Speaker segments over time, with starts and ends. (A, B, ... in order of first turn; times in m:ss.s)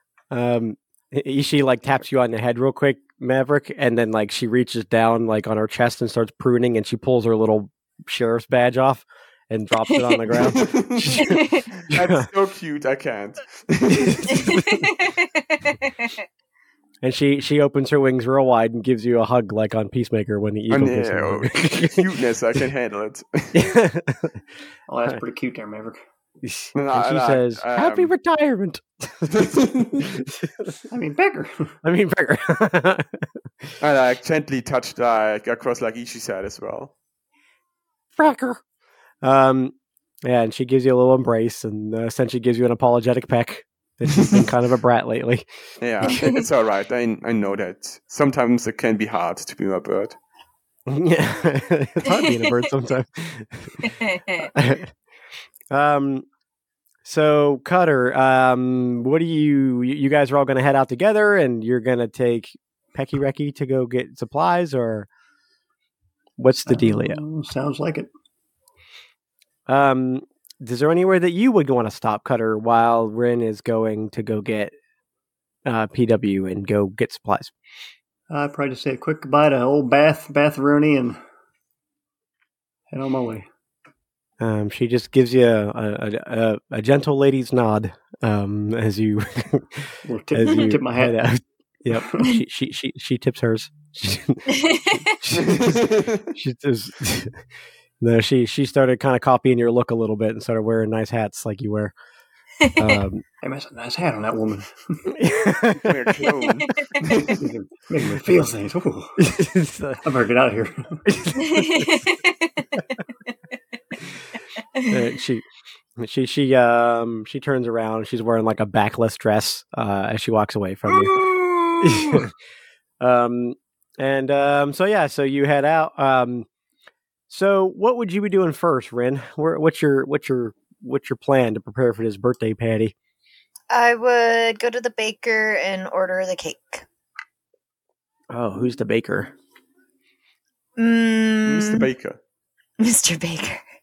0:00.3-0:12.3 A
0:09.9-0:10.2 B
0:10.3-0:14.4 C
0:11.2-0:11.7 B
0:13.9-0:14.8 A
0:14.3-0:16.2 B
0:17.0-0:22.1 A
0:20.7-0:23.7 C
0:23.5-0:24.4 A
0:24.9-0:26.0 D
0:26.4-0:30.8 A
0:26.7-0:28.1 C
0:29.3-0:30.1 C
0:30.9-0:31.7 D
0:31.8-0:33.2 A
0:33.8-0:36.9 C
0:38.2-0:38.6 A
0:39.2-0:39.7 A
0:40.2-0:45.5 A
0:44.1-0:44.5 C
0:45.8-0:50.2 C
0:46.1-0:46.4 B
0:50.9-0:53.8 A
0:52.1-0:52.6 B
0:53.8-0:54.5 B
0:54.5-0:54.9 A
0:55.7-0:56.3 A
0:57.0-1:05.1 A
1:06.4-1:07.2 A
1:06.7-1:08.1 D
1:09.7-1:14.7 A
1:15.6-1:17.5 A
1:18.3-1:21.2 D
1:22.9-1:23.5 D
1:24.4-1:37.4 A
1:30.0-1:31.2 D
1:34.5-1:35.1 B
1:35.3-1:36.3 C
1:38.0-1:41.9 A
1:42.6-1:43.0 B
1:42.8-1:43.2 A
1:43.4-1:45.1 D
1:45.1-1:46.2 A
1:45.8-1:47.4 C
1:46.7-1:47.0 B
1:47.3-1:49.2 D
1:49.2-1:50.0 A
1:50.0-1:51.0 D
1:51.1-1:52.0 A
1:51.4-1:52.7 B
1:54.9-1:55.4 A
1:56.0-2:01.2 A
2:01.1-2:01.8 B
2:01.8-2:02.3 A
2:03.0-2:06.5 A
2:07.3-2:12.9 A
2:13.7-2:16.8 B
2:18.3-2:19.3 A
2:20.8-2:21.9 B
2:21.5-2:22.2 C
2:22.8-2:23.6 B